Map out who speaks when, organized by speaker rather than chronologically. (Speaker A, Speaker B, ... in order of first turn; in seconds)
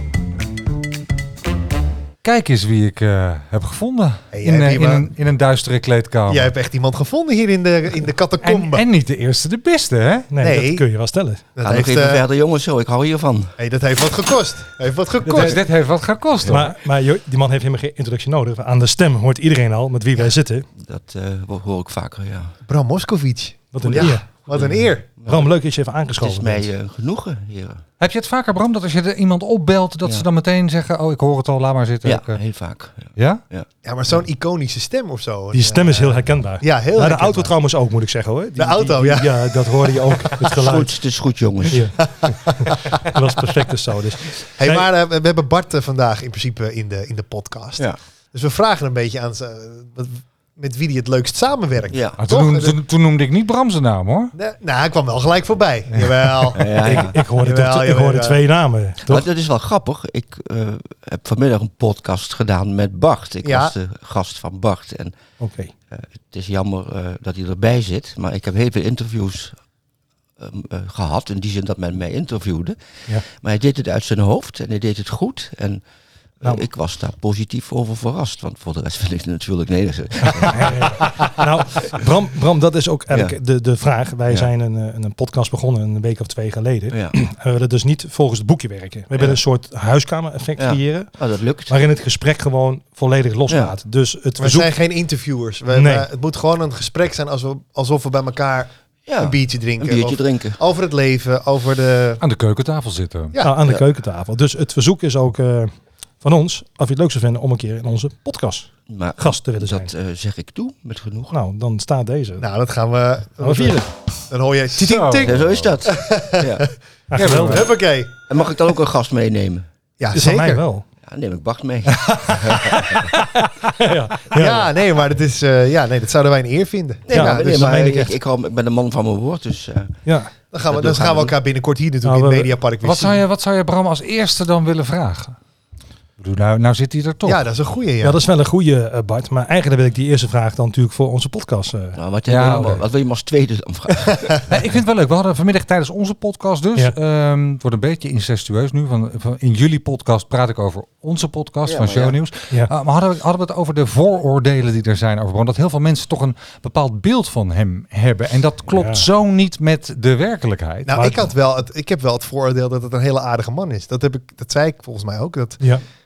Speaker A: 2.2-6.5, 8.4-10.3, 15.2-16.7, 28.0-32.4, 33.1-33.4, 52.2-54.3, 55.9-56.5, 102.2-103.3, 114.8-115.9, 117.1-117.8, 132.8-135.4, 136.2-137.4, 142.3-142.8, 144.5-161.0
Speaker B: 4.3-5.0, 6.3-8.8, 10.4-10.8, 11.6-12.2, 13.6-15.6, 22.6-25.0, 33.8-37.5, 38.6-40.3, 42.0-43.0, 44.5-52.8, 54.3-58.4, 63.4-63.7, 94.4-102.2, 103.3-103.6, 112.4-116.7, 117.3-118.3, 120.0-120.6, 124.3-128.1, 130.5-133.2, 137.2-138.2, 160.8-165.6
Speaker C: 10.3-11.4, 16.5-20.7, 23.7-24.3, 25.2-26.7, 35.5-41.0, 41.7-44.8, 56.8-59.2, 65.4-65.7, 80.5-91.1, 91.7-94.7, 95.7-96.1, 103.4-109.9, 111.3-112.5, 113.4-113.9, 117.1-117.7, 120.1-120.8, 121.9-124.7, 127.1-128.1, 130.1-130.3, 132.0-132.5, 138.0-142.0, 158.7-159.0, 160.9-161.2
Speaker D: 11.6-13.5, 20.8-22.6, 23.9-25.5, 26.1-27.8, 32.0-33.7, 40.4-41.9, 51.9-52.2, 56.5-57.1, 59.0-65.2, 65.9-69.6, 70.4-75.8, 76.4-81.3, 86.9-87.2, 90.6-91.8, 93.5-93.8, 99.1-100.6, 108.9-111.3, 115.2-116.7, 118.3-119.7, 121.0-123.1, 127.1-130.0, 130.6-131.3, 142.0-144.5, 151.7-152.2